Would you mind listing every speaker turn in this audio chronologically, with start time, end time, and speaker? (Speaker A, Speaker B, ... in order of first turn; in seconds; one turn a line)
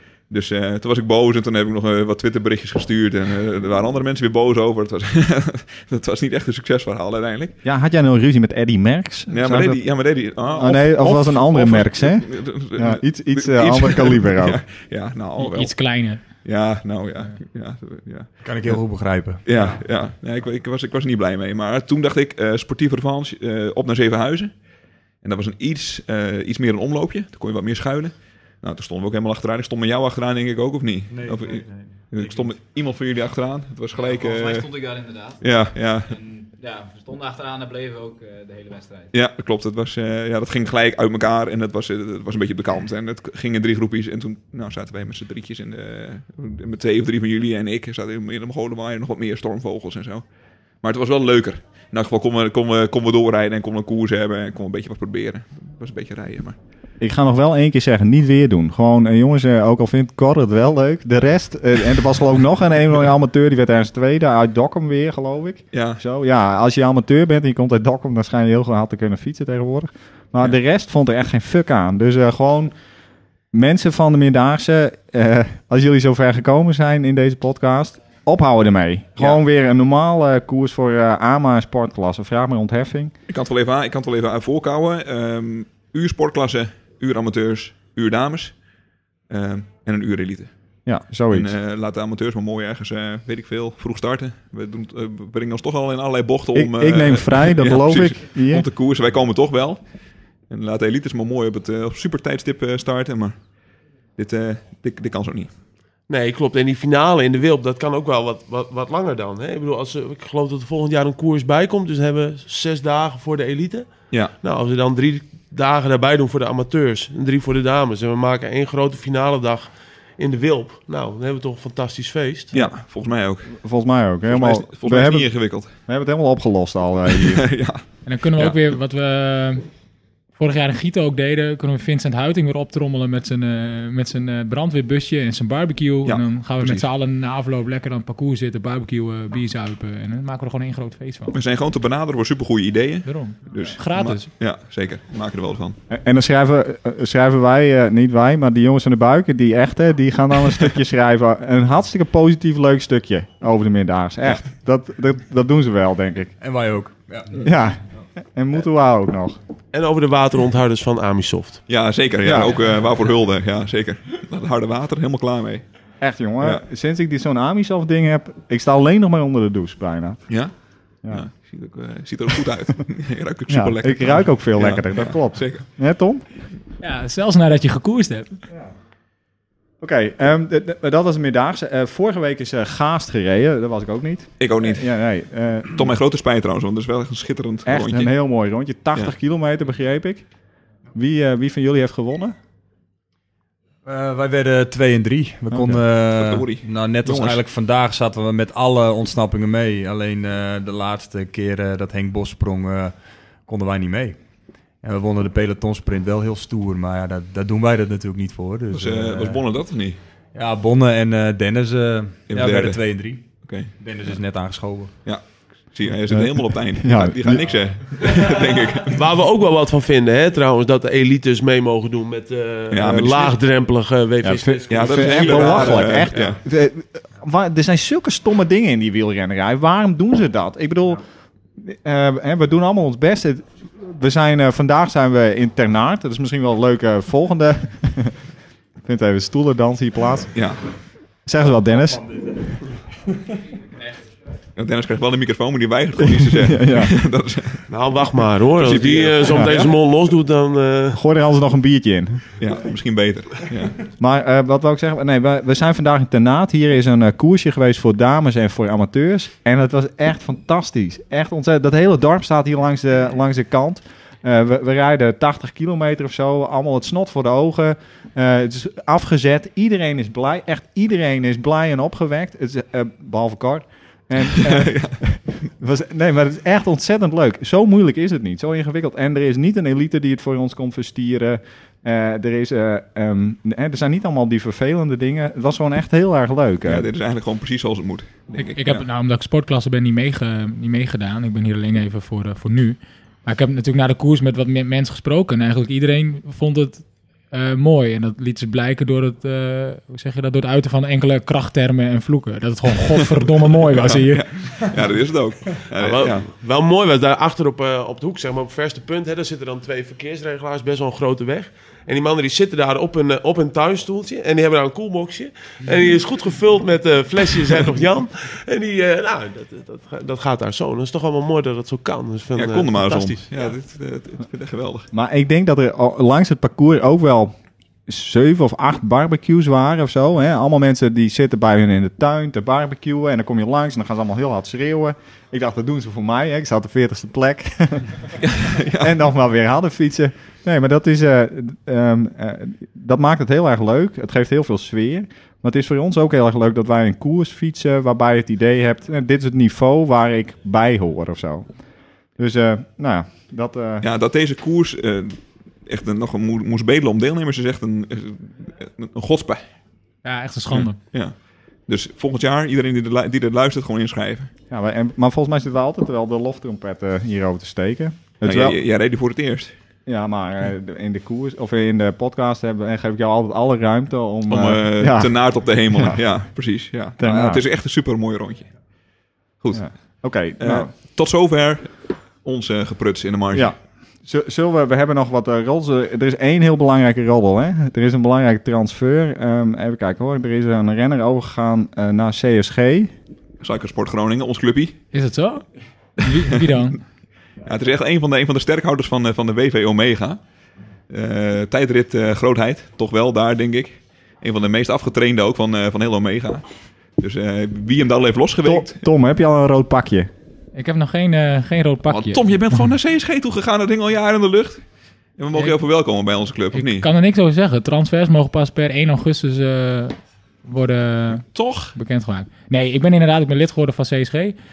Speaker A: 0.3-7.5
Speaker B: 7.6-9.9
Speaker A: 9.3-18.8
Speaker B: 10.5-14.6
Speaker C: 15.4-16.2
Speaker D: 18.4-19.4
Speaker A: 19.4-24.6
Speaker A: 25.2-34.8
Speaker D: 31.1-32.5
Speaker E: 34.0-39.1
Speaker A: 35.4-36.2
Speaker A: 39.1-50.2
Speaker A: 50.8-56.5
Speaker B: 57.0-72.7
Speaker A: 65.7-66.0
Speaker B: 73.5-83.1
Speaker A: 83.3-88.5
Speaker A: 89.3-90.5
Speaker B: 90.8-91.5
Speaker A: 91.3-99.8
Speaker B: 96.5-98.7
Speaker A: 100.5-103.4
Speaker A: 104.2-105.5
Speaker F: 106.1-113.9
Speaker F: 114.4-122.5
Speaker A: 122.5-123.5
Speaker B: 123.5-127.5
Speaker A: 124.3-125.7
Speaker A: 127.1-128.6
Speaker C: 128.0-129.6
Speaker C: 130.3-141.3
Speaker A: 136.0-136.9
Speaker A: 141.3-145.8
Speaker C: 143.1-144.3
Speaker B: 145.9-156.3
Speaker D: 156.4-157.4
Speaker B: 157.3-157.8
Speaker B: 158.3-159.4
Speaker F: 159.7-161.6
Speaker A: 161.7-165.6
Speaker B: 162.2-162.6
Speaker B: 166.0-170.2
Speaker A: 171.1-175.6
Speaker B: 173.5-176.2
Speaker C: 176.8-178.4
Speaker B: 179.8-185.9
Speaker A: 184.4-184.9
Speaker A: 185.7-188.1
Speaker B: 187.7-190.2
Speaker B: 190.9-192.3
Speaker D: 193.8-202.9
Speaker B: 195.5-195.8
Speaker A: 196.1-197.4
Speaker D: 203.4-204.2
Speaker D: 204.8-209.4
Speaker A: 208.7-210.0
Speaker D: 210.3-213.2
Speaker A: 212.3-212.8
Speaker A: 213.4-213.7
Speaker D: 213.8-214.9
Speaker A: 215.0-219.0
Speaker B: 216.1-217.5
Speaker F: 218.9-226.3
Speaker A: 222.7-223.3
Speaker B: 224.2-231.0
Speaker A: 224.7-226.4
Speaker B: 231.6-238.2
Speaker B: 238.8-240.4
Speaker B: 241.2-242.2
Speaker A: 244.6-247.6
Speaker B: 246.0-246.9
Speaker F: 247.7-251.0
Speaker A: 248.6-249.8
Speaker B: 250.9-252.3
Speaker A: 252.4-253.8
Speaker B: 253.9-286.9
Speaker A: 274.3-275.0
Speaker A: 286.7-288.9
Speaker C: 288.5-304.6
Speaker A: 303.8-306.2
Speaker F: 305.7-323.5
Speaker A: 322.4-324.9
Speaker B: 324.9-327.3
Speaker B: 327.9-337.9
Speaker A: 338.2-339.0
Speaker B: 338.8-351.5
Speaker B: 352.2-353.8
Speaker A: 353.8-359.4
Speaker C: 360.0-360.8
Speaker A: 360.5-361.1
Speaker A: 361.7-364.3
Speaker B: 364.5-368.6
Speaker A: 368.2-369.5
Speaker B: 369.9-376.0
Speaker A: 374.3-378.5
Speaker B: 377.0-377.4
Speaker A: 379.4-379.7
Speaker B: 379.5-380.7
Speaker A: 380.4-383.5
Speaker B: 383.3-392.9
Speaker A: 393.4-394.8
Speaker C: 394.9-395.4
Speaker C: 396.0-396.8
Speaker A: 397.4-400.2
Speaker A: 400.9-406.4
Speaker A: 407.0-408.8
Speaker B: 408.4-410.1
Speaker C: 410.5-412.6
Speaker A: 411.9-414.6
Speaker A: 415.2-416.9
Speaker C: 415.3-415.6
Speaker C: 416.5-421.2
Speaker A: 421.3-421.7
Speaker C: 421.7-424.4